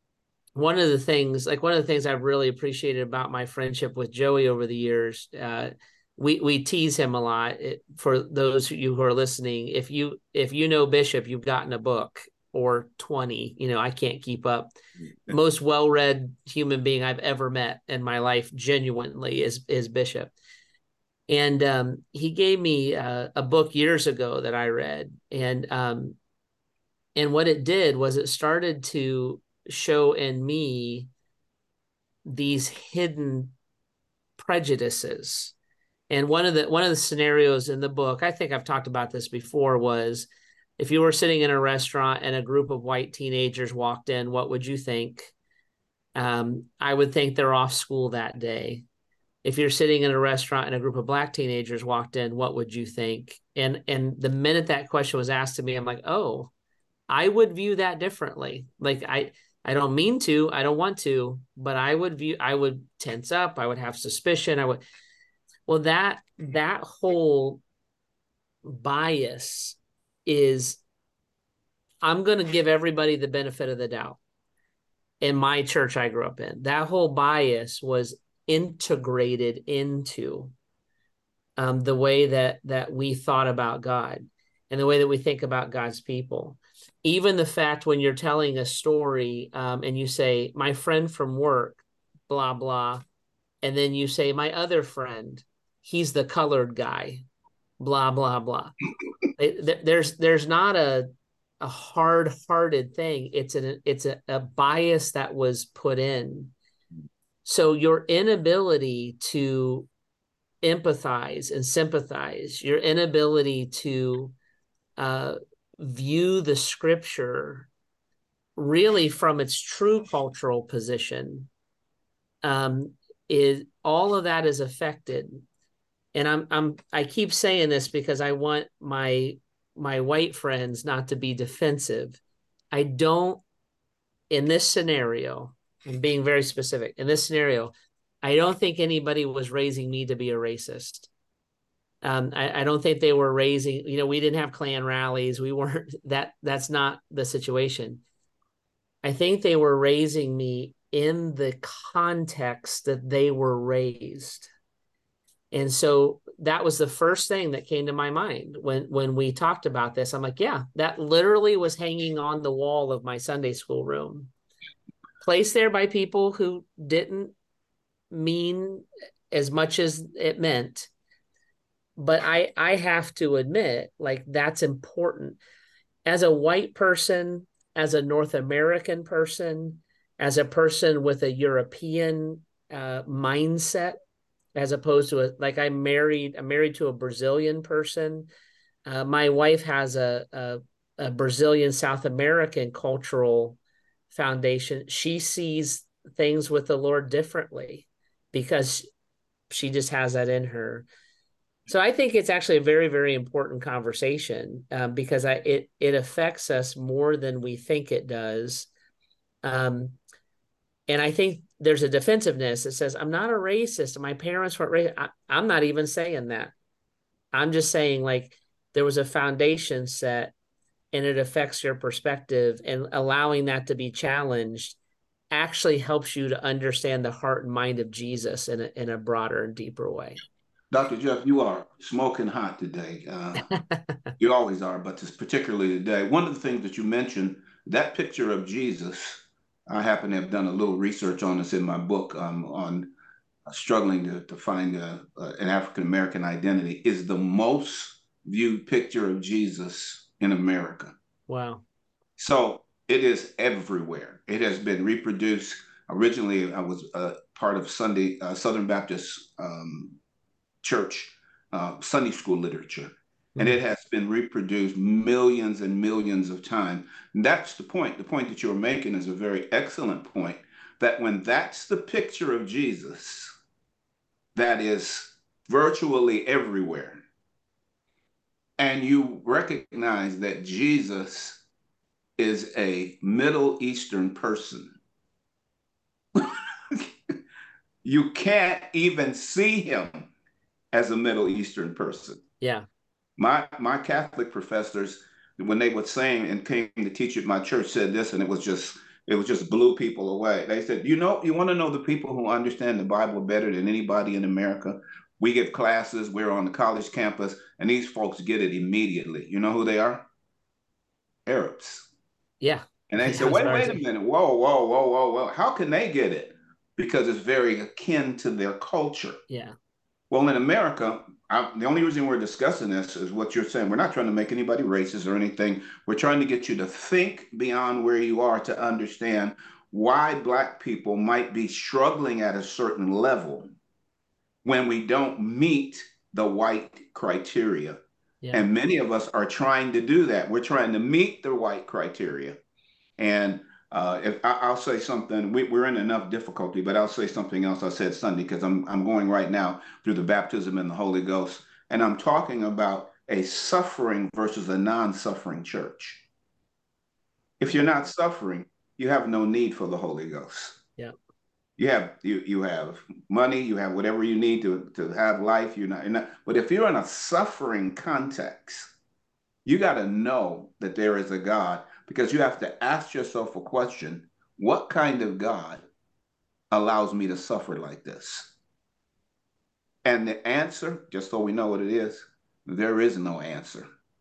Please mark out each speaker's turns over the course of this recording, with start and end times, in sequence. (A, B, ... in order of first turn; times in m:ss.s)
0:00.5-0:14.7 A
0:15.3-0:20.3 A
0:21.3-0:26.2 A
0:27.1-0:31.1 A
0:32.2-0:33.5 A
0:34.4-0:35.5 A
0:36.1-0:45.3 A
0:46.2-0:48.8 A
0:49.4-0:56.5 A
0:57.1-1:04.8 A
1:05.7-1:07.6 A
1:08.6-1:10.8 A
1:12.0-1:14.2 A
1:15.2-1:20.5 A
1:21.6-1:33.0 A
1:33.6-1:37.2 A
1:37.8-1:38.7 A
1:39.4-1:41.1 A
1:41.6-1:46.5 A
1:47.4-1:49.9 A
1:50.6-1:54.3 A
1:55.0-1:57.7 A
1:58.6-2:01.5 A
2:02.4-2:05.4 A
2:06.1-2:12.2 A
2:12.7-2:13.4 A
2:14.3-2:21.1 A
2:22.0-2:28.0 A
2:29.0-2:34.5 A
2:35.5-2:44.3 A
2:45.2-2:47.3 A
2:48.1-2:50.9 A
2:52.0-2:55.4 A
2:56.0-3:04.0 A
3:04.5-3:08.3 A
3:08.8-3:13.6 A
3:14.1-3:18.9 A
3:19.5-3:20.9 A
3:21.7-3:28.7 A
3:29.4-3:30.0 A
3:30.9-3:36.5 A
3:37.3-3:40.3 A
3:40.9-3:44.8 A
3:45.3-3:50.2 A
3:50.7-3:53.4 B
3:53.5-3:53.8 A
3:54.2-4:02.9 B
4:03.5-4:10.9 B
4:11.3-4:11.6 A
4:12.2-4:20.0 B
4:20.6-4:33.3 B
4:34.3-4:37.0 B
4:38.6-4:41.4 B
4:42.2-4:44.8 B
4:46.2-4:46.9 B
4:47.8-4:50.1 B
4:50.7-4:52.2 B
4:52.4-4:52.6 A
4:53.2-5:10.0 B
5:11.2-5:11.9 B
5:12.4-5:13.8 A
5:12.9-5:19.2 B
5:19.3-5:19.5 A
5:20.1-5:33.5 B
5:34.4-5:37.8 B
5:38.2-5:38.5 A
5:38.3-5:42.4 B
5:43.0-5:56.0 B
5:57.4-6:00.6 B
6:01.6-6:08.7 B
6:09.4-6:15.6 B
6:16.5-6:18.3 B
6:19.8-6:23.7 B